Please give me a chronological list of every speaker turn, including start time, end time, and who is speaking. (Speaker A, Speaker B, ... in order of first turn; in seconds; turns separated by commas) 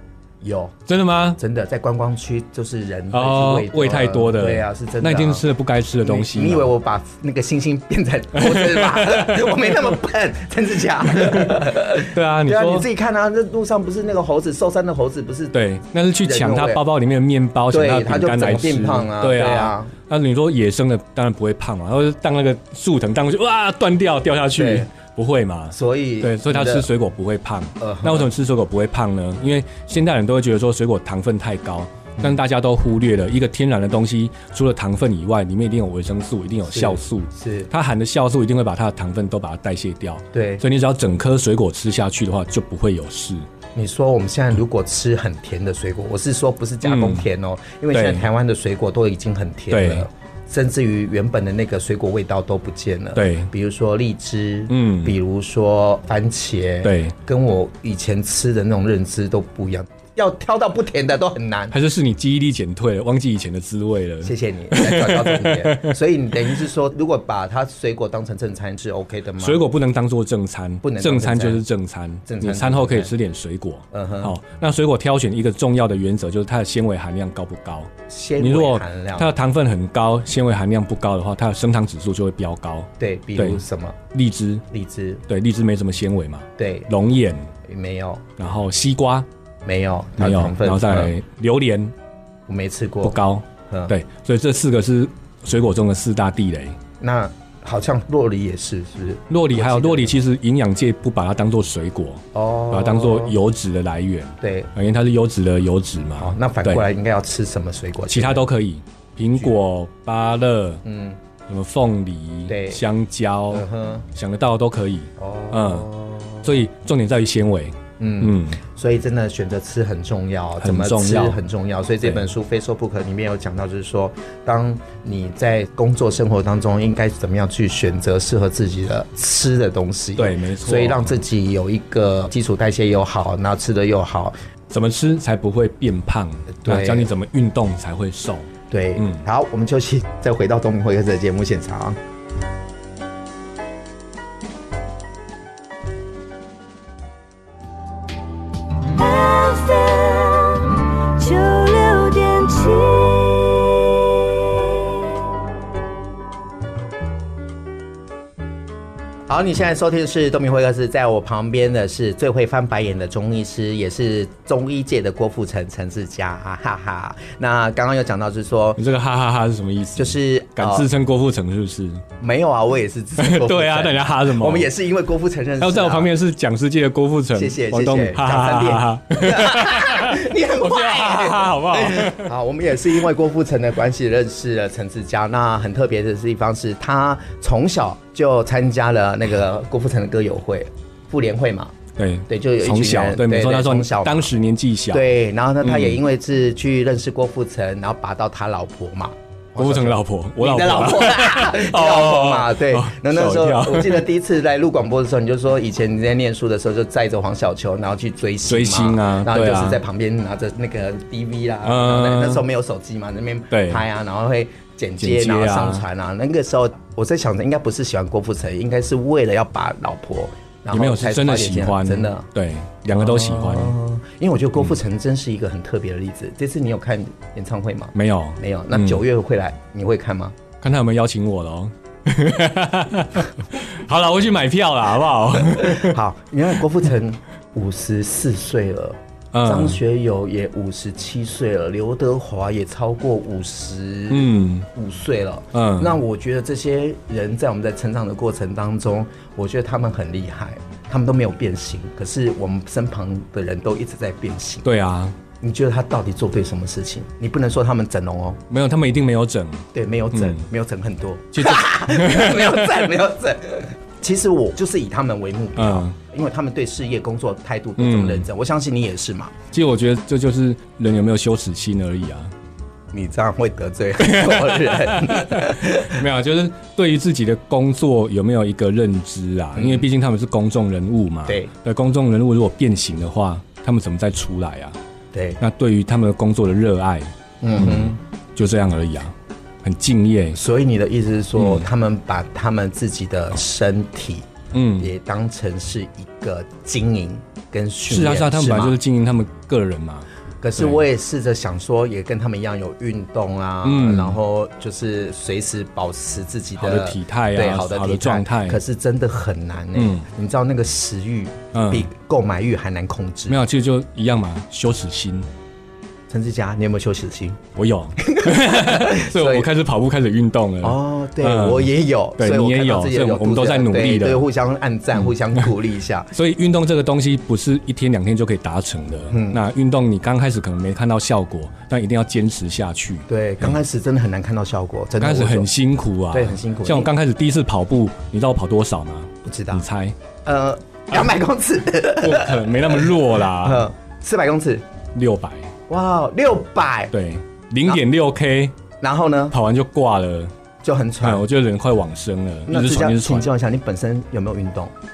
Speaker A: 0.4-0.8, Speaker B: 0.9-1.4, Speaker A: 1.4-5.4, Speaker B: 3.1-6.7, Speaker A: 6.0-15.6, Speaker B: 8.3-9.8, Speaker B: 11.1-12.9, Speaker B: 15.5-43.5, Speaker A: 16.2-16.8, Speaker A: 17.7-19.9, Speaker A: 24.6-24.9, Speaker A: 25.7-26.9, Speaker A: 27.8-28.3, Speaker A: 36.7-37.7, Speaker A: 40.3-40.6, Speaker A: 43.8-61.8, Speaker B: 46.8-47.3, Speaker B: 47.9-48.3, Speaker B: 49.7-50.1, Speaker B: 53.2-53.5, Speaker B: 54.7-55.1, Speaker B: 56.8-57.1, Speaker B: 61.7-66.0, Speaker A: 64.2-69.7, Speaker B: 69.4-84.7, Speaker A: 70.8-71.6, Speaker A: 72.3-73.1, Speaker A: 73.9-74.3, Speaker A: 78.1-79.3, Speaker A: 83.0-84.0, Speaker A: 84.7-85.2, Speaker B: 85.3-87.5, Speaker A: 86.6-86.9, Speaker A: 87.7-88.2, Speaker B: 88.4-89.3, Speaker A: 89.7-91.2, Speaker B: 90.2-92.0, Speaker A: 92.5-93.9, Speaker B: 93.0-96.8, Speaker A: 97.0-100.2, Speaker B: 99.3-106.8, Speaker A: 102.3-103.3, Speaker A: 104.4-104.7, Speaker A: 106.2-108.5, Speaker B: 108.1-110.8, Speaker A: 110.8-111.2, Speaker B: 111.5-115.9, Speaker A: 112.5-112.8, Speaker A: 113.5-114.1, Speaker A: 115.2-116.6, Speaker B: 116.4-118.6, Speaker A: 118.0-134.3, Speaker B: 120.6-121.4, Speaker B: 130.2-131.1, Speaker B: 134.7-139.2, Speaker A: 136.5-137.1, Speaker A: 138.7-142.0, Speaker C: 148.9-154.0, Speaker A: 159.3-168.8, Speaker B: 168.8-172.0, Speaker A: 170.0-170.9, Speaker A: 172.2-176.1, Speaker B: 173.2-174.7, Speaker B: 175.6-182.3, Speaker A: 177.3-191.8, Speaker B: 192.0-195.1, Speaker A: 192.3-194.3, Speaker A: 194.9-222.3, Speaker B: 195.6-196.0, Speaker B: 199.6-204.1, Speaker B: 208.5-209.8, Speaker B: 211.6-212.4, Speaker B: 213.5-213.8, Speaker B: 215.0-215.8, Speaker B: 220.7-223.8, Speaker A: 222.9-230.4, Speaker B: 227.9-229.0, Speaker B: 230.6-236.0, Speaker A: 235.5-254.7, Speaker B: 239.3-239.8, Speaker B: 244.1-244.7, Speaker B: 245.5-246.0, Speaker B: 254.6-255.2, Speaker A: 255.4-258.4, Speaker B: 258.5-260.4, Speaker A: 259.7-269.4, Speaker B: 261.3-262.9, Speaker B: 265.6-266.0, Speaker B: 267.8-268.3, Speaker B: 269.5-272.3, Speaker A: 272.9-276.0, Speaker B: 274.0-284.8, Speaker A: 279.6-279.9, Speaker A: 285.1-285.4, Speaker B: 285.4-290.4, Speaker A: 287.4-288.0, Speaker A: 290.3-298.8, Speaker B: 291.4-291.7, Speaker B: 294.5-294.9, Speaker B: 297.9-300.8, Speaker A: 300.4-313.4, Speaker B: 303.6-304.2, Speaker B: 306.6-308.6, Speaker B: 309.8-310.1, Speaker B: 311.5-311.9, Speaker B: 313.3-315.3, Speaker A: 316.1-317.4, Speaker B: 317.6-324.3, Speaker A: 318.0-319.5, Speaker A: 320.6-326.1, Speaker B: 326.1-333.5, Speaker A: 329.1-329.4, Speaker A: 333.1-335.5, Speaker B: 335.0-340.0, Speaker A: 336.1-336.9, Speaker A: 339.2-339.6, Speaker A: 340.2-344.6, Speaker B: 342.0-343.7, Speaker B: 344.9-345.5, Speaker A: 345.7-346.9, Speaker B: 346.9-348.6, Speaker A: 348.8-349.4, Speaker B: 349.3-350.3, Speaker A: 350.6-351.2, Speaker B: 351.0-353.3, Speaker A: 352.5-354.7